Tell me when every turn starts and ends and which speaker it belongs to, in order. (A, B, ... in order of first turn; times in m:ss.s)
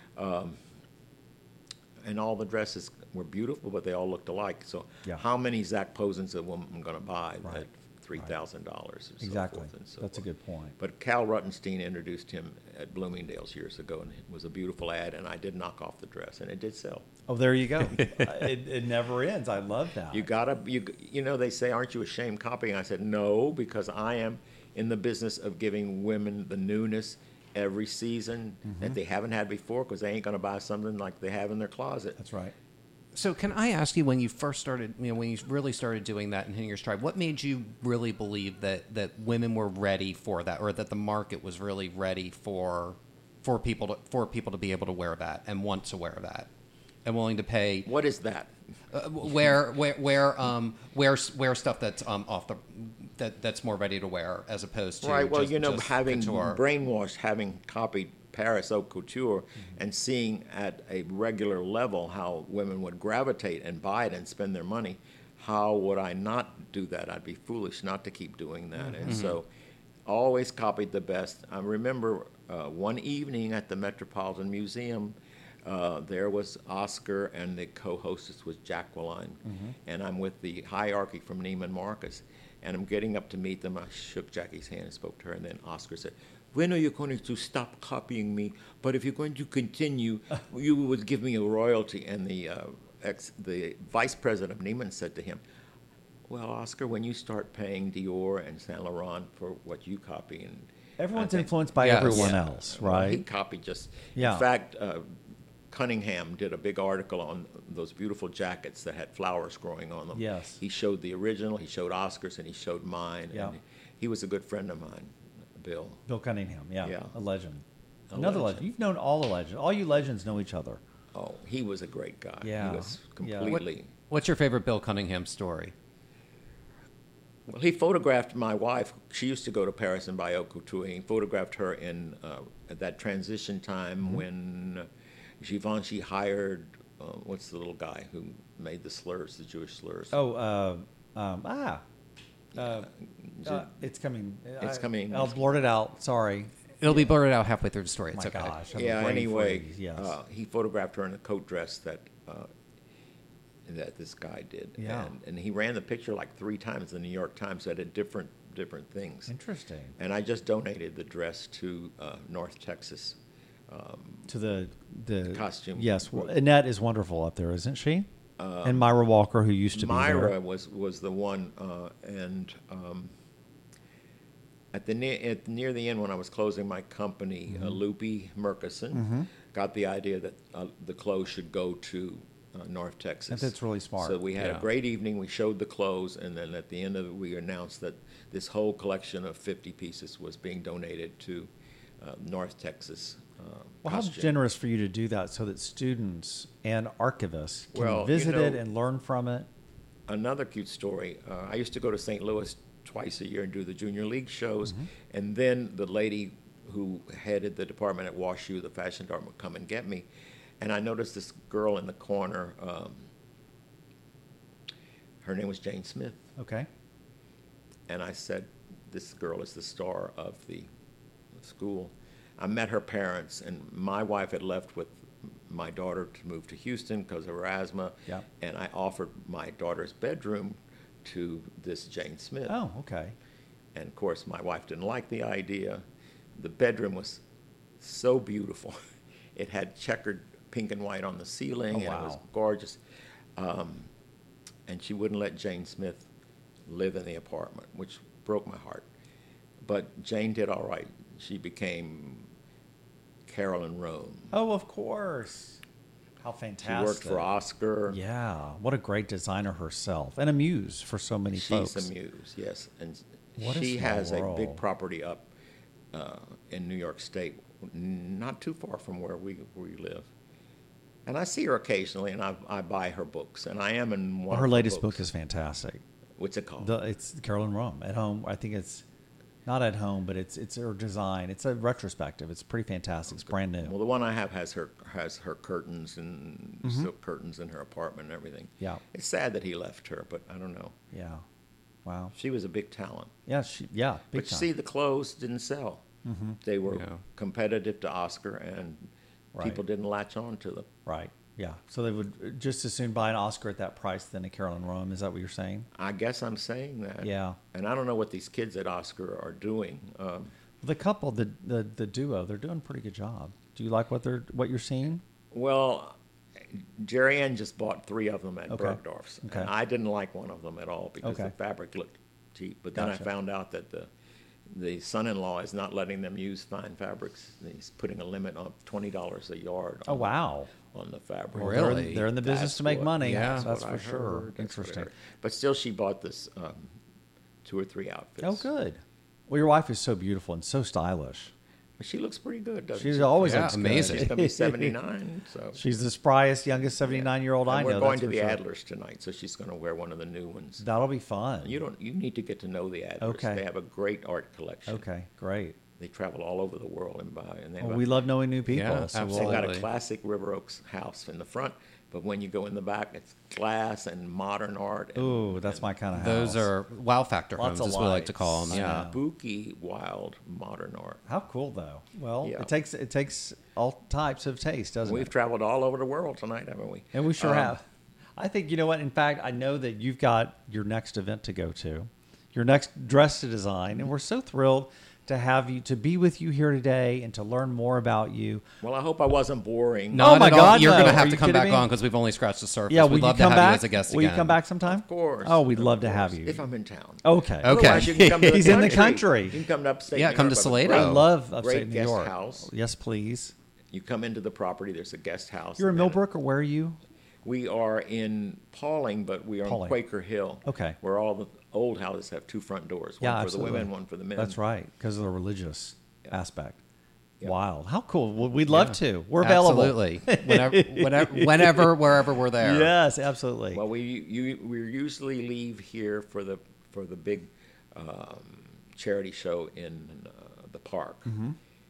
0:00.2-0:00.6 A
0:02.0-0:10.2 A
0:09.2-0:10.8 B
0:10.8-0:17.1 A
0:17.3-0:20.3 B
0:20.1-0:32.2 A
0:28.6-0:29.0 B
0:32.2-0:32.5 B
0:33.1-0:46.5 C
0:47.0-0:47.9 C
0:47.8-0:48.5 A
0:48.9-0:56.6 C
0:55.0-1:09.5 A
1:08.8-1:09.1 B
1:09.1-1:09.3 C
1:10.0-1:35.4 A
1:19.4-1:19.7 B
1:36.3-1:45.1 A
1:41.0-1:43.2 B
1:41.8-1:42.4 C
1:44.1-1:44.4 B
1:45.7-1:56.0 A
1:50.1-1:50.6 B
1:56.1-2:00.8 B
1:56.8-1:57.1 A
1:58.1-1:58.7 A
2:01.1-2:03.9 A
2:02.4-2:03.6 B
2:04.1-2:05.7 C
2:07.5-2:14.9 A
2:15.4-2:20.2 A
2:20.1-2:21.8 B
2:22.5-2:23.7 A
2:22.6-2:22.9 B
2:23.4-2:27.1 B
2:24.6-2:25.4 A
2:26.8-2:28.7 C
2:28.1-2:30.1 B
2:28.7-2:32.5 A
2:33.6-2:39.3 A
2:34.8-2:35.1 B
2:39.3-2:40.0 B
2:40.0-2:44.3 A
2:44.3-2:48.1 B
2:45.3-2:46.4 A
2:48.4-2:48.9 A
2:48.6-2:50.3 B
2:49.7-2:53.1 A
2:54.7-3:14.4 A
2:57.5-2:57.8 B
2:58.9-2:59.3 B
3:03.3-3:04.2 B
3:04.4-3:04.6 C
3:13.8-3:19.5 B
3:17.7-3:18.6 A
3:20.1-3:30.1 A
3:30.6-3:33.1 A
3:35.2-3:36.2 A
3:36.4-3:36.7 B
3:37.9-3:40.7 A
3:41.3-3:52.6 A
3:52.5-3:53.1 B
3:53.7-3:55.8 A
3:56.4-3:57.2 A
3:57.8-3:58.8 A
3:59.3-4:02.8 A
4:01.7-4:02.2 B
4:03.4-4:03.9 A
4:04.7-4:06.1 A
4:06.7-4:08.9 A
4:09.6-4:12.3 A
4:13.3-4:14.3 A
4:14.3-4:15.6 B
4:16.2-4:17.3 B
4:16.6-4:18.0 A
4:17.9-4:21.9 B
4:21.3-4:25.3 A
4:23.4-4:24.6 B
4:25.9-4:30.1 A
4:31.0-4:35.0 A
4:34.3-4:35.8 B
4:36.2-4:36.8 A
4:36.6-4:38.8 B
4:39.4-4:43.7 B
4:43.2-4:50.8 A
4:46.6-4:46.9 B
4:50.9-4:51.2 B
4:51.8-4:52.1 B
4:52.1-4:53.2 A
4:53.3-4:54.5 B
4:54.1-4:55.8 A
4:56.0-4:56.4 B
4:56.4-5:00.7 A
4:56.7-4:57.0 C
4:59.3-4:59.6 B
5:00.8-5:05.7 B
5:05.7-5:10.3 A
5:07.0-5:07.4 B
5:10.6-5:15.0 B
5:15.3-5:23.9 A
5:18.5-5:19.5 B
5:21.0-5:21.3 B
5:22.7-5:23.1 B
5:24.5-5:36.7 A
5:29.9-5:30.5 B
5:31.3-5:32.1 C
5:31.3-5:34.9 B
5:33.0-5:33.4 C
5:37.4-5:38.5 A
5:38.2-5:41.3 B
5:41.8-5:45.6 A
5:42.8-5:44.8 B
5:43.2-5:44.1 C
5:45.5-5:48.4 B
5:46.8-5:50.6 A
5:50.6-5:51.6 B
5:51.4-5:54.8 A
5:53.0-5:53.4 B
5:54.7-5:55.6 B
5:55.8-6:05.7 A
5:57.6-5:59.5 B
5:58.5-5:59.6 C
6:05.0-6:06.5 B
6:05.9-6:08.9 C
6:07.4-6:09.0 B
6:08.5-6:11.0 A
6:11.1-6:15.1 B
6:12.2-6:12.5 A
6:14.8-6:17.6 A
6:16.9-6:17.6 B
6:18.2-6:28.4 B
6:28.6-6:31.1 A
6:29.9-6:34.4 C
6:29.9-6:31.7 B
6:32.7-6:36.4 B
6:34.6-6:42.5 A
6:37.0-6:39.4 B
6:37.4-6:38.8 C
6:39.9-6:41.1 C
6:40.6-6:43.3 B
6:43.7-6:46.0 A
6:45.6-6:46.8 B
6:47.2-6:54.4 A
6:49.4-6:49.8 B
6:50.4-6:50.8 B
6:53.0-6:56.6 B
6:57.2-7:03.6 B
6:58.5-7:02.7 C
7:03.5-7:11.1 A
7:11.0-7:11.4 B